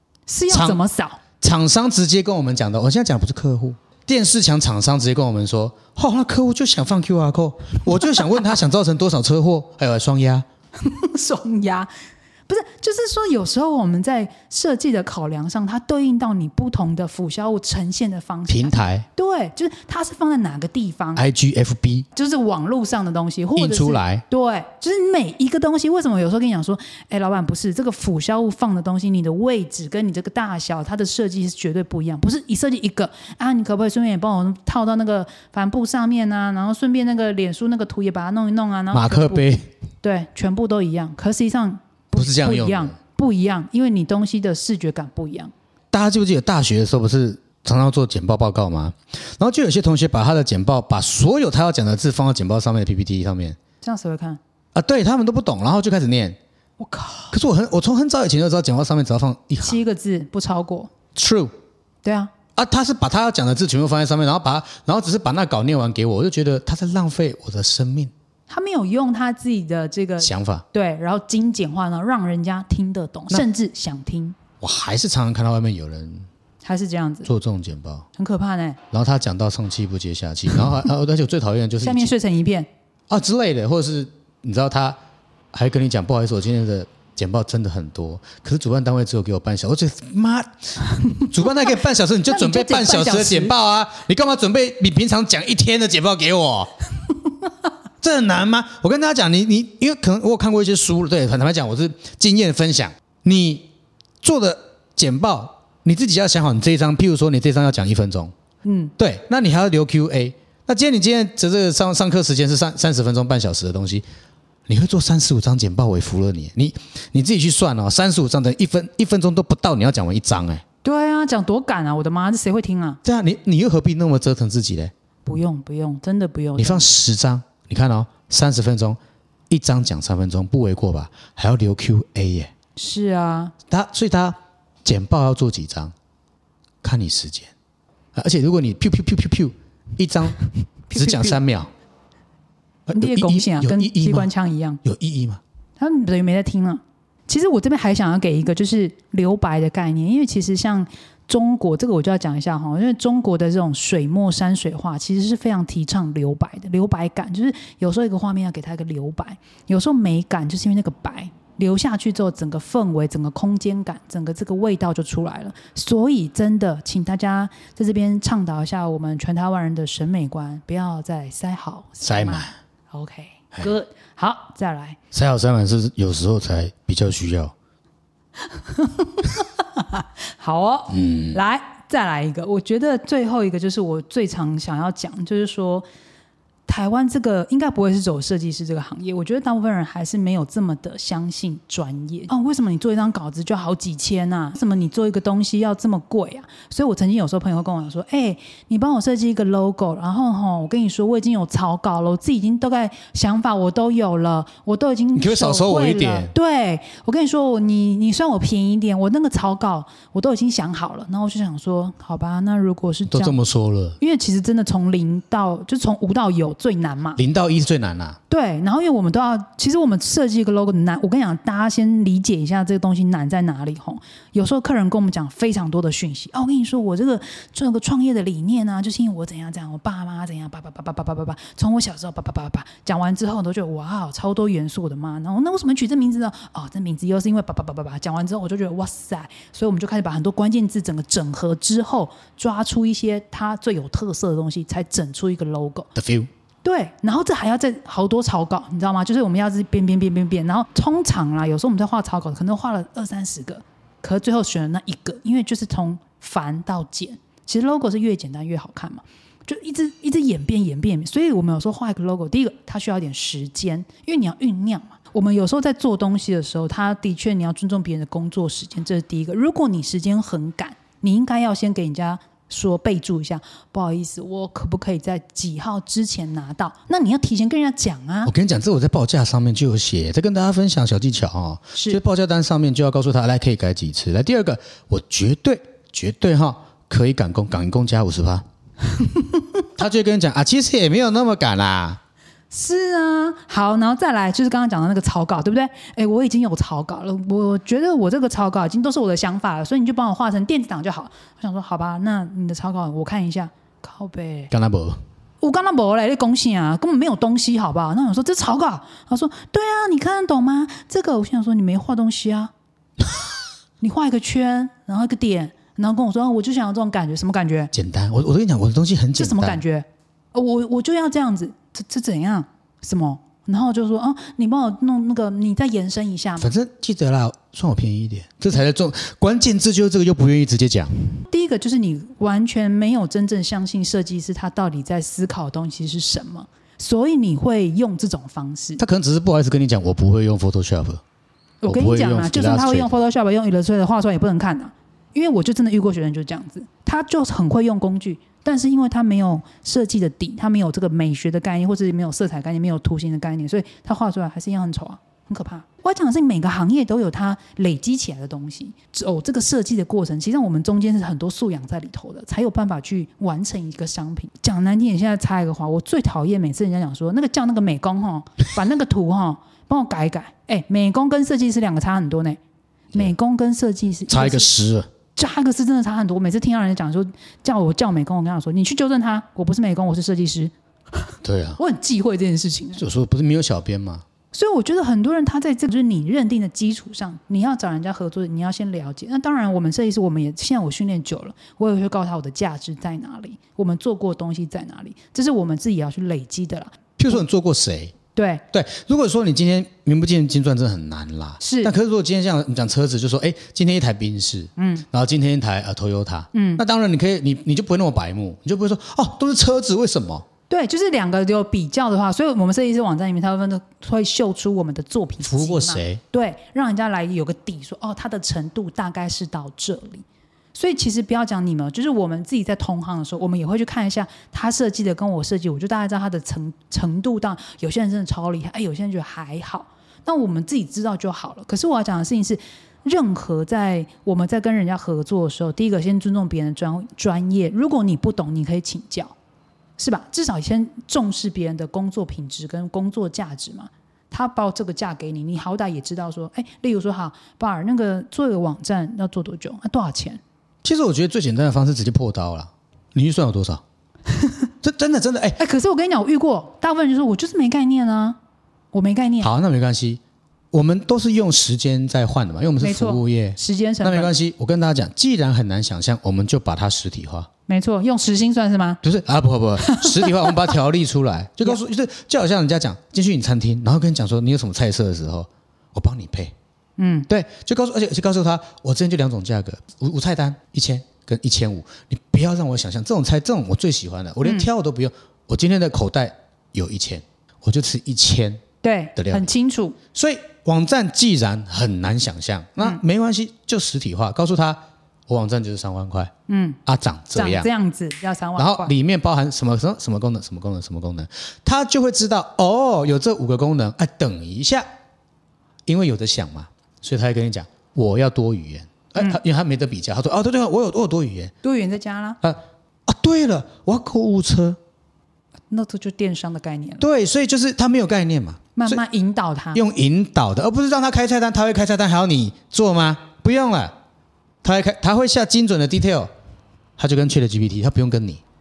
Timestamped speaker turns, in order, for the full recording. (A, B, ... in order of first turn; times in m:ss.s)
0:00.3-0:01.2 A
0:00.5-0:00.8 B
0:01.4-0:10.5 B
0:10.8-0:11.9 A
0:12.5-0:21.2 A
0:18.5-0:19.1 B
0:21.2-0:22.1 B
0:22.2-0:39.5 A
0:23.6-0:24.2 B
0:38.9-0:39.7 B
0:40.0-0:45.5 A
0:42.2-0:43.0 B
0:45.9-0:53.6 B
0:53.8-0:54.4 A
0:54.7-0:56.4 B
0:56.8-0:57.4 A
0:57.3-0:59.8 B
0:59.6-1:00.9 A
1:01.2-1:01.5 B
1:02.0-1:02.3 A
1:02.6-1:08.1 B
1:08.5-1:14.4 A
1:10.2-1:10.6 B
1:14.6-1:16.3 B
1:16.6-1:17.3 A
1:17.2-1:18.1 B
1:18.2-1:18.8 A
1:18.9-1:22.1 B
1:21.8-1:22.7 A
1:23.1-1:25.0 B
1:25.5-1:36.7 B
1:32.3-1:33.5 A
1:38.0-1:43.7 B
1:44.2-1:48.3 B
1:48.6-1:48.9 A
1:49.0-1:54.0 B
1:54.7-2:00.6 B
2:00.8-2:03.0 A
2:03.0-2:04.9 B
2:05.3-2:06.9 A
2:06.6-2:09.0 B
2:09.5-2:12.5 B
2:12.8-2:13.5 A
2:13.7-2:15.9 B
2:16.8-2:17.5 B
2:18.2-2:20.4 B
2:20.9-2:21.4 A
2:20.9-2:21.7 B
2:22.9-2:24.3 B
2:22.9-2:24.8 A
2:24.8-2:25.4 B
2:25.8-2:55.0 A
2:52.0-2:52.6 B
2:55.1-2:57.5 B
2:58.4-3:05.9 A
3:00.9-3:01.4 B
3:06.7-3:33.4 A
3:25.2-3:26.3 B
3:33.1-3:34.0 B
3:34.0-3:37.2 A
3:37.2-3:38.2 B
3:38.3-4:05.9 A
4:06.0-4:06.3 B
4:06.6-4:38.3 A
4:38.2-4:48.4 B
4:41.8-4:42.0 A
4:48.9-4:49.6 A
4:49.8-4:52.0 B
4:52.5-5:04.5 A
5:04.5-5:05.0 B
5:05.4-5:12.5 A
5:13.8-5:17.7 A
5:17.7-5:19.6 B
5:19.2-5:26.5 A
5:26.4-5:31.0 B
5:31.3-5:38.8 A
5:38.8-5:41.0 B
5:41.6-6:12.4 A
5:41.7-5:43.0 B
6:12.9-6:14.5 A
6:14.1-6:14.9 B
6:15.2-6:22.8 A
6:21.2-6:21.6 B
6:22.8-6:24.0 B
6:24.3-6:36.8 A
6:37.0-6:38.0 B
6:38.2-6:38.4 A
6:38.5-6:50.3 B
6:41.4-6:41.7 A
6:44.6-6:44.9 A
6:46.3-6:46.6 A
6:50.5-7:19.1 A
6:55.2-6:56.0 B
7:19.8-7:30.2 A
7:30.6-7:33.6 B
7:34.1-7:34.5 A
7:34.6-7:35.4 B
7:35.4-7:38.2 A
7:38.7-7:39.3 A
7:39.2-7:40.0 B
7:40.5-7:47.3 B
7:42.6-7:44.1 A
7:47.5-7:48.8 A
7:48.8-7:56.3 B
7:49.6-7:50.5 A
7:56.8-7:57.1 A
7:57.1-8:08.4 B
8:08.6-8:09.8 A
8:09.0-8:09.3 B
8:09.9-8:16.1 B
8:16.3-8:16.6 A
8:16.7-8:17.5 B
8:17.1-8:18.7 A
8:18.4-8:24.7 B
8:25.7-8:31.3 B
8:31.4-8:32.2 A
8:32.2-8:34.6 B
8:35.5-8:36.9 A
8:36.8-8:38.8 B
8:38.6-8:39.6 A
8:39.6-8:43.8 B
8:44.4-8:46.1 B
8:46.8-8:48.2 B